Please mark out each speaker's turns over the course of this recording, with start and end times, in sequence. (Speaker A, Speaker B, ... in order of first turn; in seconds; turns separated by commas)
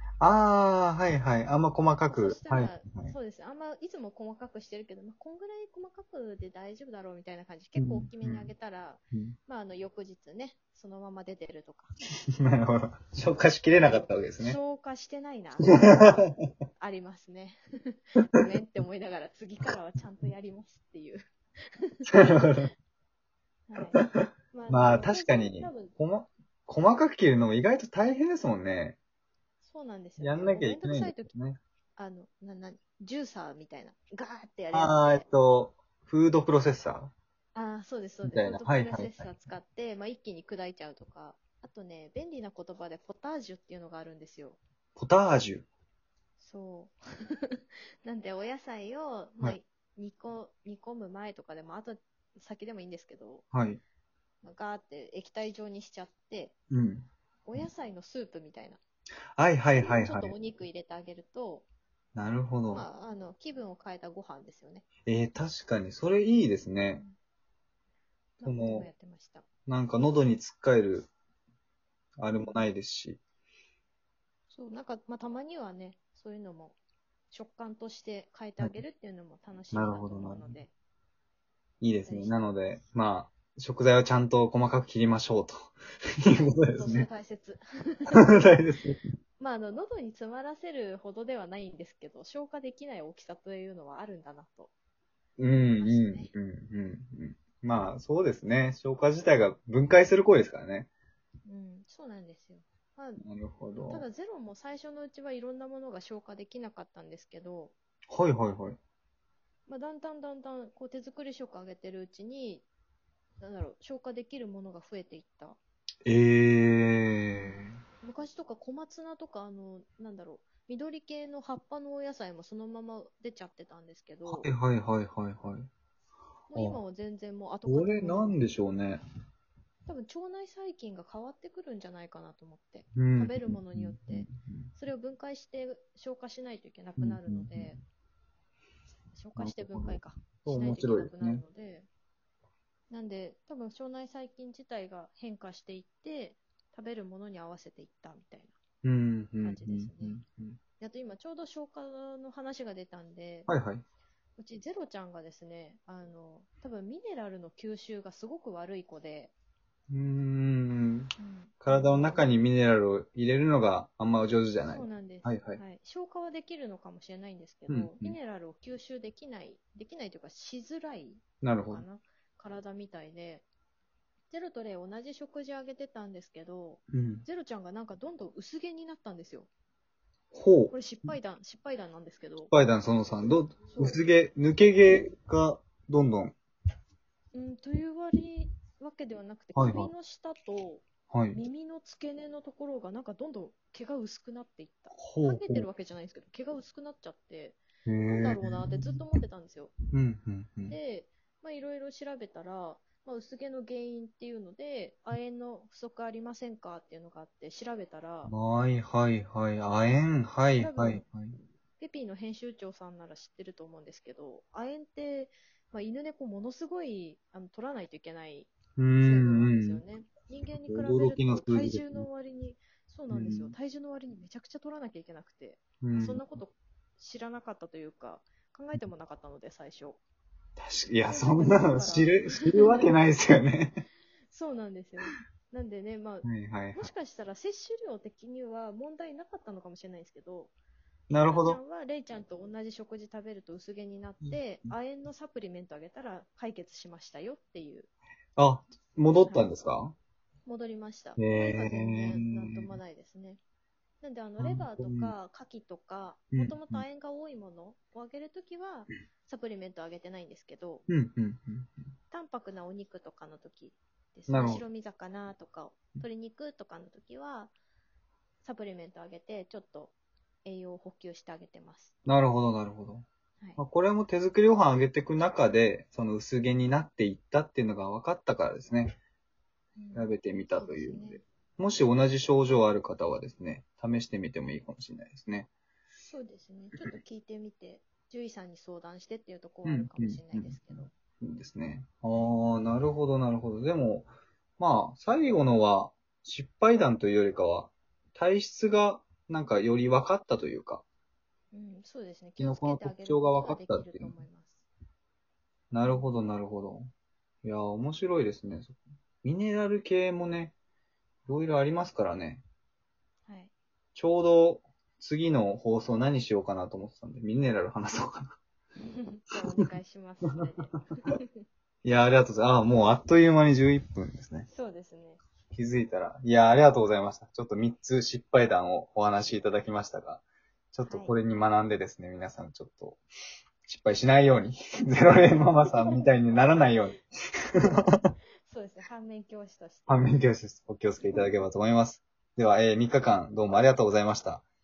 Speaker A: 0.2-3.1, Speaker B: 2.1-11.9, Speaker A: 7.8-8.5, Speaker A: 12.4-14.6, Speaker B: 14.4-21.2, Speaker A: 15.6-16.4, Speaker B: 21.8-22.1, Speaker A: 22.1-22.7, Speaker B: 23.7-25.9, Speaker A: 24.7-29.0, Speaker B: 29.6-31.3, Speaker A: 30.2-31.6, Speaker B: 32.0-35.2, Speaker A: 34.7-37.1, Speaker B: 37.5-44.6, Speaker A: 38.2-39.3, Speaker A: 45.0-45.7, Speaker B: 46.4-53.5, Speaker A: 53.5-53.8, Speaker B: 54.4-56.5, Speaker A: 56.7-57.1, Speaker B: 57.5-58.8, Speaker A: 59.4-60.4, Speaker B: 59.8-61.7, Speaker A: 62.1-62.9, Speaker B: 62.7-64.9, Speaker A: 65.1-67.0, Speaker B: 68.4-69.5, Speaker A: 68.4-68.9, Speaker A: 69.7-71.1, Speaker A: 72.2-73.2, Speaker B: 74.5-76.8, Speaker B: 77.3-80.7, Speaker A: 79.7-80.6, Speaker A: 81.8-87.1, Speaker B: 82.0-82.4, Speaker B: 86.4-88.6, Speaker A: 88.2-89.0, Speaker B: 89.4-94.7, Speaker A: 95.4-100.9, Speaker B: 95.8-96.3, Speaker B: 101.5-103.2, Speaker A: 103.2-104.1, Speaker B: 103.9-107.7, Speaker A: 108.1-108.8, Speaker B: 109.7-112.7, Speaker B: 113.4-115.6, Speaker A: 116.1-117.8, Speaker B: 117.3-124.5, Speaker A: 124.3-125.7, Speaker B: 126.5-128.4, Speaker A: 126.5-126.8, Speaker A: 127.7-129.0, Speaker B: 129.9-137.8, Speaker A: 133.0-134.7, Speaker A: 137.0-137.8, Speaker B: 139.1-141.9, Speaker A: 139.4-141.4, Speaker B: 142.9-148.6, Speaker A: 148.8-150.6, Speaker B: 149.4-150.2, Speaker B: 150.8-153.5, Speaker A: 153.5-153.8, Speaker B: 154.4-159.3, Speaker A: 159.9-161.1, Speaker B: 161.2-162.4, Speaker A: 161.6-165.6, Speaker B: 164.7-173.4, Speaker A: 167.7-168.2, Speaker A: 171.4-171.8, Speaker B: 174.3-179.5, Speaker A: 176.9-177.3, Speaker A: 180.3-180.7, Speaker B: 180.7-182.5, Speaker A: 182.5-186.4, Speaker B: 183.7-184.0, Speaker B: 187.3-199.8, Speaker A: 189.6-189.9, Speaker A: 191.1-191.4, Speaker A: 195.0-195.7, Speaker A: 197.9-199.0, Speaker A: 199.9-200.8, Speaker B: 200.7-208.3, Speaker A: 208.3-211.4, Speaker B: 210.6-211.0, Speaker B: 211.8-230.0, Speaker A: 218.8-219.8, Speaker A: 220.7-222.1, Speaker A: 223.1-223.5, Speaker A: 225.8-226.2, Speaker A: 230.6-233.8, Speaker B: 231.1-232.9, Speaker B: 234.3-240.5, Speaker A: 236.2-236.9, Speaker A: 241.1-241.6, Speaker B: 241.2-247.9, Speaker A: 248.4-250.0, Speaker B: 250.4-253.4, Speaker A: 251.2-252.8, Speaker B: 254.0-260.9, Speaker A: 254.4-255.1, Speaker A: 256.3-256.9, Speaker A: 260.9-261.9, Speaker B: 262.1-267.5, Speaker A: 264.3-264.6, Speaker B: 268.4-269.9, Speaker B: 270.4-271.9, Speaker A: 272.1-273.1, Speaker A: 273.6-279.0, Speaker B: 279.8-281.2, Speaker A: 279.9-285.5, Speaker B: 286.1-290.9, Speaker A: 289.7-300.8, Speaker B: 301.5-304.6, Speaker A: 302.4-304.1, Speaker A: 305.7-306.9, Speaker B: 305.9-306.1, Speaker A: 307.4-310.6, Speaker A: 311.3-312.4, Speaker B: 313.3-313.5, Speaker A: 313.9-318.4, Speaker B: 318.9-321.4, Speaker A: 320.3-320.7, Speaker A: 321.8-324.5, Speaker B: 324.5-325.2, Speaker A: 325.5-333.0, Speaker B: 330.9-331.2, Speaker A: 333.7-337.0, Speaker B: 335.6-336.1, Speaker B: 337.6-340.1, Speaker A: 339.9-344.4